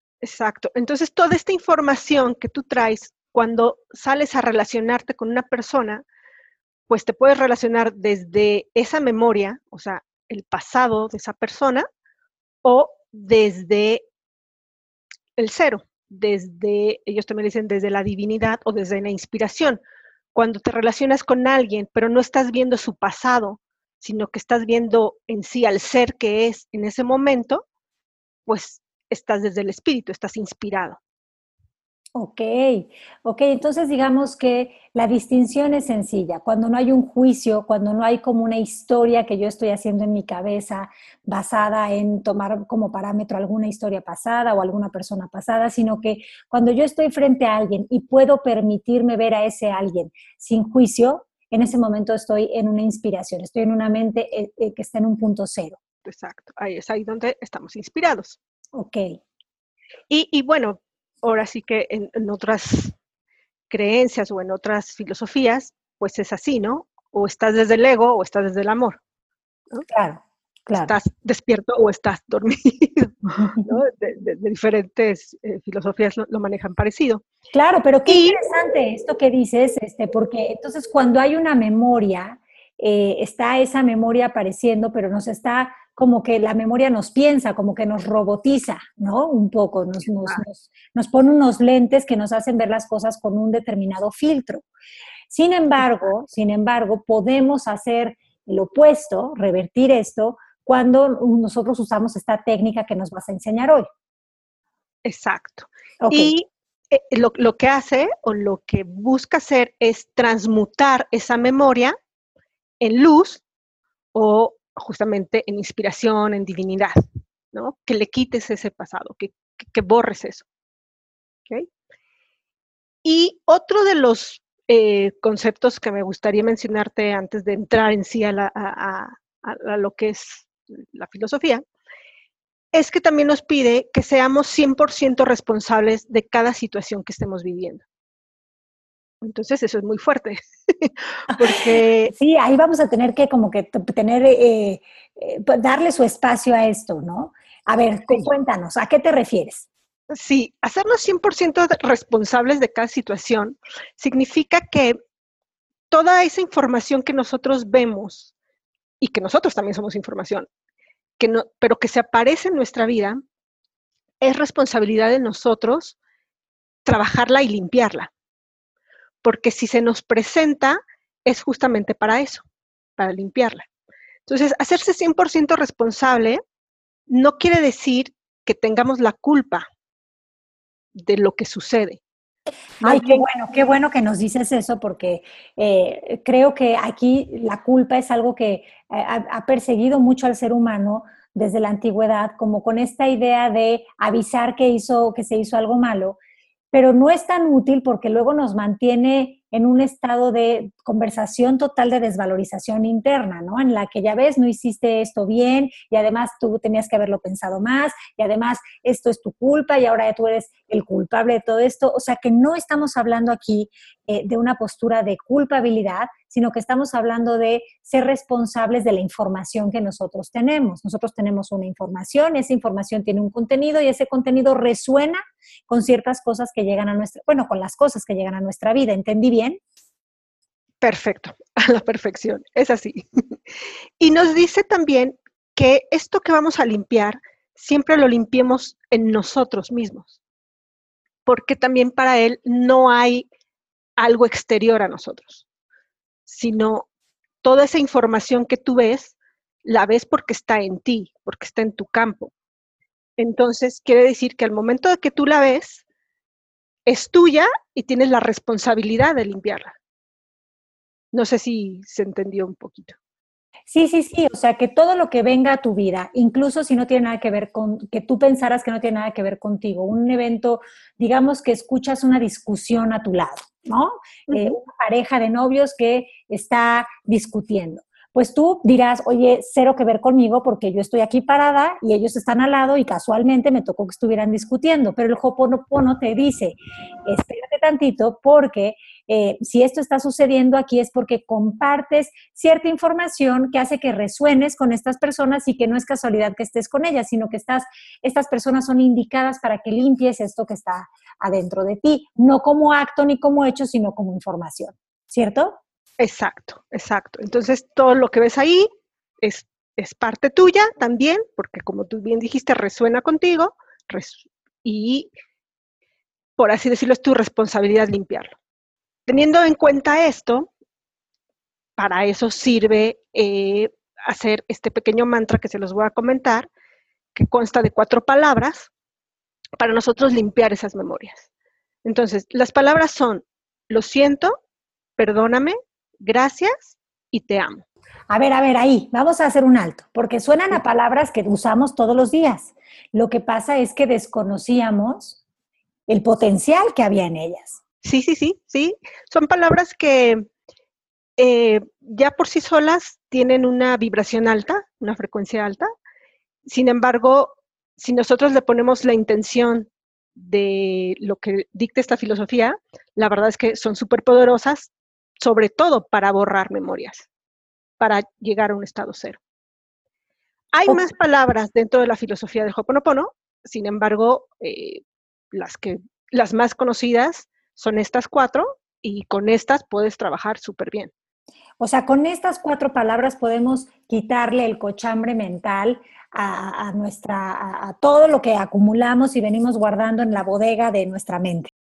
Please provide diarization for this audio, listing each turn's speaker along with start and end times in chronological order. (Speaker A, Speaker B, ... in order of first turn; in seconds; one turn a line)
Speaker A: 0.2-6.0
Speaker A: 6.9-11.9
Speaker A: 12.6-14.1
Speaker A: 15.4-19.8
Speaker A: 20.3-27.6
Speaker A: 28.5-31.0
Speaker B: 32.1-55.8
Speaker A: 56.0-58.4
Speaker B: 58.7-59.2
Speaker A: 60.1-62.9
Speaker A: 63.7-69.0
Speaker B: 69.9-70.9
Speaker A: 70.8-77.2
Speaker B: 73.4-73.8
Speaker B: 77.5-94.7
Speaker A: 78.1-78.4
Speaker B: 95.3-103.9
Speaker A: 105.0-112.0
Speaker B: 106.0-106.3
Speaker A: 112.8-113.4
Speaker A: 114.1-117.0
Speaker A: 117.5-120.5
Speaker A: 123.0-131.6
Speaker A: 132.7-137.8
Speaker A: 139.2-142.1
Speaker B: 141.4-149.7
Speaker A: 150.1-155.0
Speaker A: 155.9-158.3
Speaker A: 159.0-160.5
Speaker A: 161.2-163.2
Speaker A: 164.2-166.0
Speaker A: 166.8-168.1
Speaker A: 169.2-172.4
Speaker A: 173.0-173.7
Speaker A: 174.3-176.4
Speaker A: 177.1-179.7
Speaker A: 180.9-182.0
Speaker A: 182.8-183.3
Speaker B: 182.8-196.2
Speaker B: 196.7-229.6
Speaker A: 230.8-233.1
Speaker A: 234.0-240.2
Speaker A: 241.3-243.3
Speaker A: 244.0-245.4
Speaker A: 246.3-246.9
Speaker A: 247.4-252.3
Speaker A: 253.2-255.8
Speaker A: 256.9-259.8
Speaker A: 261.1-262.9
Speaker B: 263.7-305.6
Speaker A: 274.3-274.6
Speaker A: 306.0-308.7
Speaker A: 309.2-315.1
Speaker A: 316.4-318.4
Speaker A: 319.1-320.5
Speaker A: 321.8-326.5
Speaker A: 327.1-328.7
Speaker A: 329.6-331.3
Speaker A: 331.8-334.4
Speaker A: 335.0-337.6
Speaker B: 338.1-345.2
Speaker B: 345.9-347.6
Speaker A: 347.8-350.3
Speaker A: 351.2-355.7
Speaker A: 356.5-367.1
Speaker A: 367.8-369.2
Speaker A: 370.5-380.9
Speaker B: 381.6-391.5